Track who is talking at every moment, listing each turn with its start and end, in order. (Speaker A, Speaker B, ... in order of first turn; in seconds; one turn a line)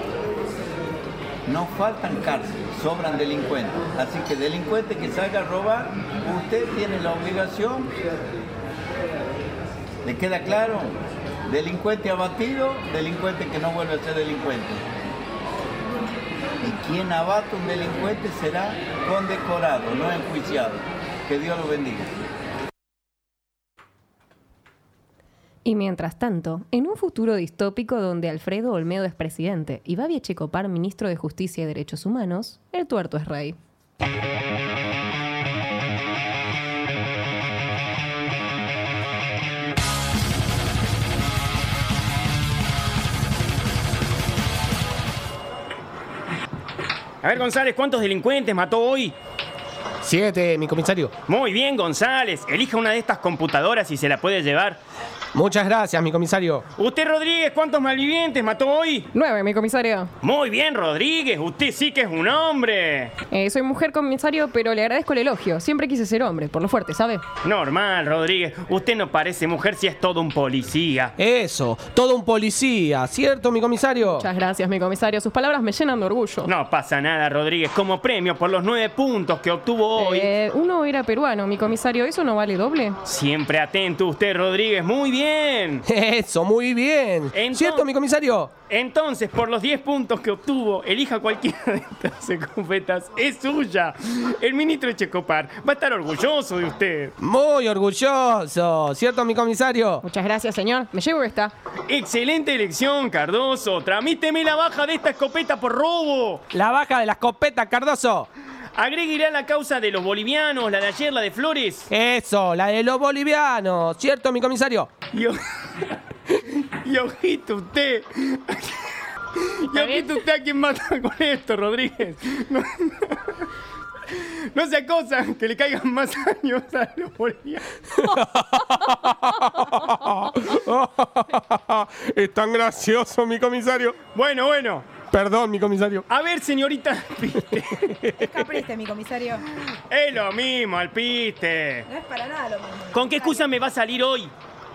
Speaker A: 1.5-7.9
Speaker A: 10.1-14.8
Speaker A: 16.6-22.1
Speaker B: 25.6-33.6
Speaker C: 47.2-49.1
Speaker D: 50.0-51.1
Speaker C: 51.3-54.8
Speaker D: 55.3-56.6
Speaker C: 56.8-59.1
Speaker B: 59.1-60.1
Speaker C: 60.2-63.1
Speaker B: 63.3-67.2
Speaker C: 67.4-71.1
Speaker D: 71.2-74.3
Speaker B: 74.1-76.5
Speaker C: 76.5-80.3
Speaker B: 80.0-83.0
Speaker C: 83.0-85.8
Speaker D: 85.9-88.5
Speaker C: 87.3-87.9
Speaker C: 88.7-97.1
Speaker D: 97.2-100.0
Speaker B: 100.0-101.5
Speaker C: 101.9-106.5
Speaker D: 106.5-108.3
Speaker C: 108.8-111.9
Speaker D: 111.9-114.9
Speaker C: 115.1-123.4
Speaker C: 124.1-128.2
Speaker D: 128.1-134.0
Speaker C: 134.1-134.9
Speaker D: 135.1-136.1
Speaker C: 136.1-138.4
Speaker E: 138.2-139.4
Speaker C: 139.9-141.9
Speaker E: 141.9-143.6
Speaker C: 142.9-144.3